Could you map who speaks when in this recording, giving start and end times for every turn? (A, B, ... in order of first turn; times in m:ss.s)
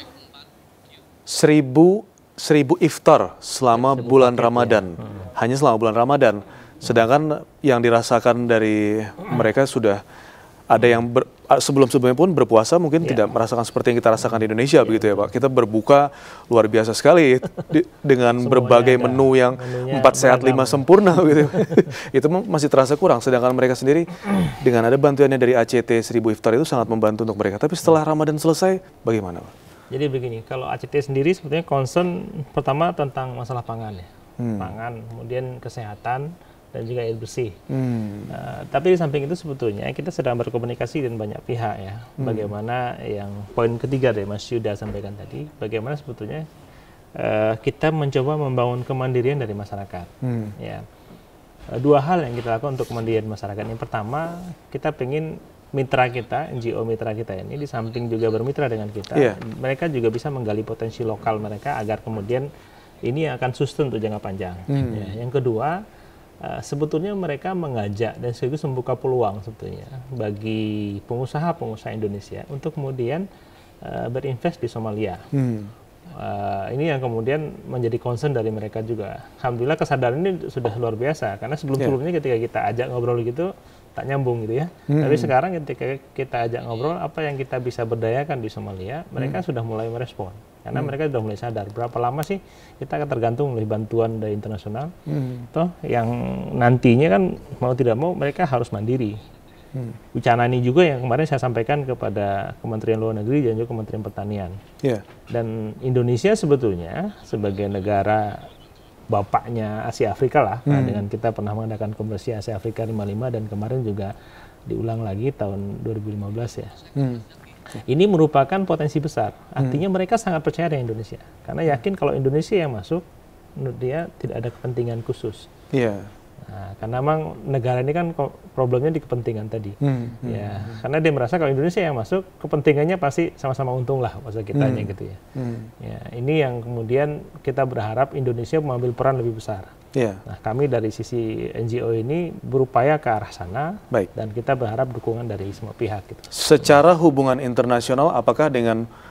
0:01.3-0:10.0 A
0:03.8-0:04.9 B
0:10.7-0:29.5 A
0:13.0-0:13.3 B
0:14.8-0:15.3 B
0:18.4-0:21.8 B
0:29.9-0:37.6 B
0:34.4-0:34.7 A
0:37.7-0:38.3 A
0:38.3-0:46.4 B
0:42.2-0:42.5 A
0:47.2-0:50.8 B
0:50.2-0:50.5 A
0:51.8-1:02.4 B
1:03.0-1:05.8 B
1:04.7-1:05.1 A
1:06.4-1:13.2 B
1:13.8-1:15.2 B
1:15.3-1:15.7 A
1:16.2-1:34.9 B
1:24.9-1:25.3 A
1:35.1-1:35.5 A
1:35.5-1:39.1 B
1:40.1-1:44.6 B
1:45.3-1:48.4 B
1:49.1-1:54.1 B
1:50.7-1:51.0 A
1:54.7-1:56.8 B
1:57.0-1:57.2 A
1:57.7-2:03.0 B
2:03.6-2:05.5 B
2:05.7-2:06.1 A
2:06.5-2:15.2 B
2:09.8-2:10.8 A
2:14.5-2:15.7 A
2:15.8-2:19.7 B
2:19.9-2:20.2 A
2:20.2-2:26.3 B
2:26.3-2:28.8 A